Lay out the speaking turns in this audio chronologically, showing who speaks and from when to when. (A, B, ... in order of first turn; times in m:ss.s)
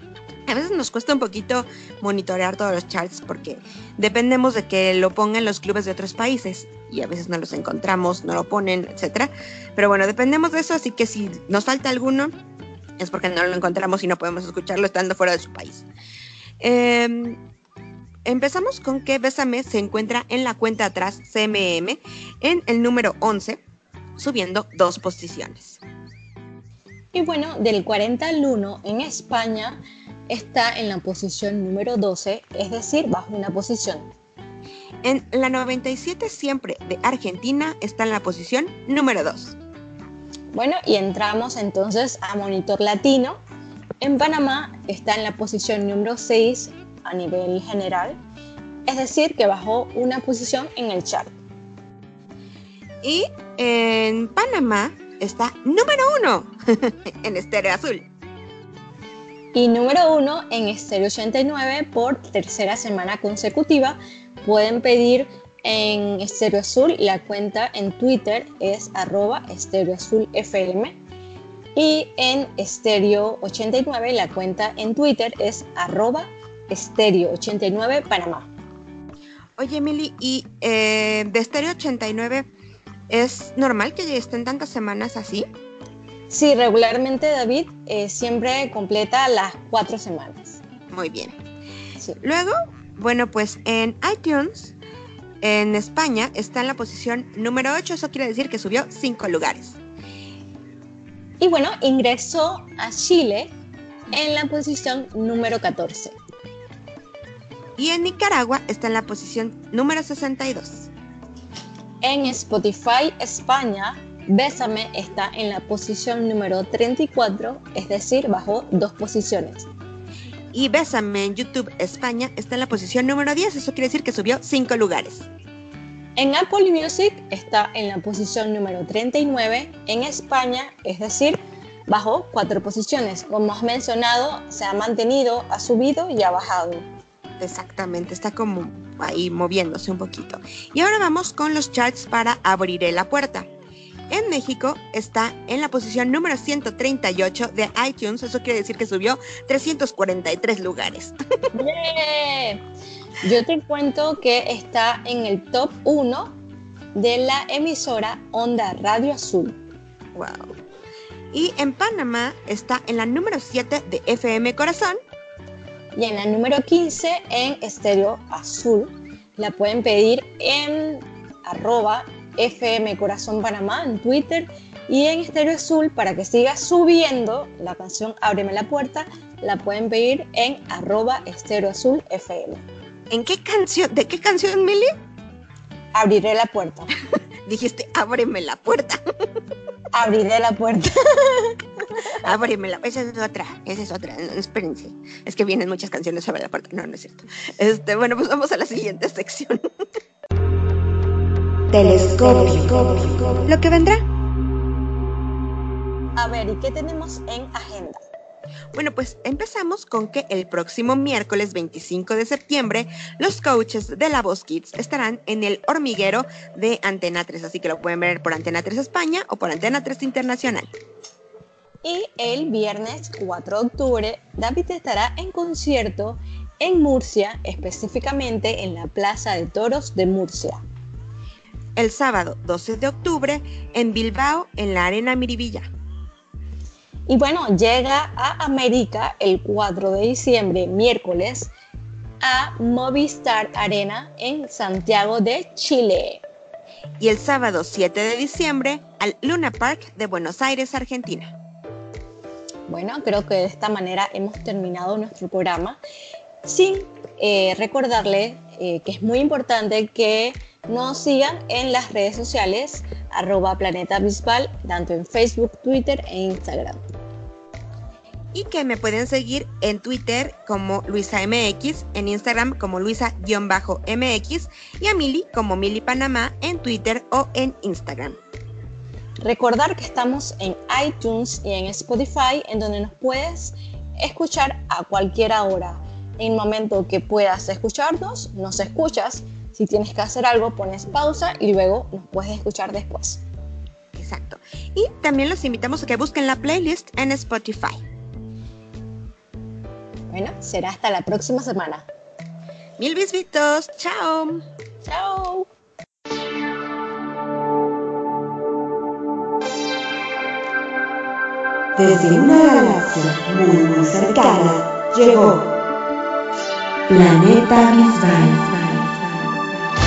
0:00.5-0:12.3 A
0:13.0-0:15.9 A
0:16.6-0:17.4 A
0:18.2-0:23.6 A
0:24.2-0:25.8 A
0:27.1-0:34.1 B
0:35.0-0:39.6 A
0:40.5-0:43.4 B
0:44.0-0:48.2 B
0:48.9-0:51.4 B
0:53.0-0:58.1 A
0:59.5-1:11.0 B
1:11.8-1:18.5 B
1:19.6-1:22.5 A
1:23.1-1:25.5 A
1:26.3-1:30.6 B
1:30.9-1:31.4 A
1:32.2-1:34.8 A
1:35.4-1:39.8 A
1:41.4-1:43.5 B
1:44.1-1:46.2 B
1:47.8-1:50.9 A
1:52.0-1:59.7 B
2:00.5-2:05.3 A
2:06.2-2:16.8 B
2:17.4-2:23.5 A
2:24.1-2:31.2 A
2:31.6-2:32.6 B
2:33.2-2:36.4 B
2:37.0-2:39.6 B
2:40.2-2:40.5 A
2:41.3-2:45.0 A
2:46.0-3:02.6 B
3:03.1-3:04.9 A
3:06.0-3:06.9 B
3:07.5-3:09.0 A
3:09.9-3:12.0 B
3:12.2-3:19.7 A
3:21.7-3:23.4 C
3:22.4-3:22.7 A
3:23.4-3:24.0 A
3:26.2-3:28.0 B
3:28.7-3:40.7 A
3:41.8-3:50.6 B
3:51.8-3:55.7 A
3:57.1-4:01.5 B
4:02.2-4:06.2 B
4:07.0-4:11.3 A
4:12.7-4:15.8 B
4:16.4-4:26.8 B
4:28.3-4:38.2 A
4:39.2-4:53.2 B
4:53.9-4:57.8 A
5:00.1-5:01.9 B
5:02.8-5:04.4 A
5:04.8-5:05.5 B
5:11.8-5:15.4 C
5:16.9-5:19.2 C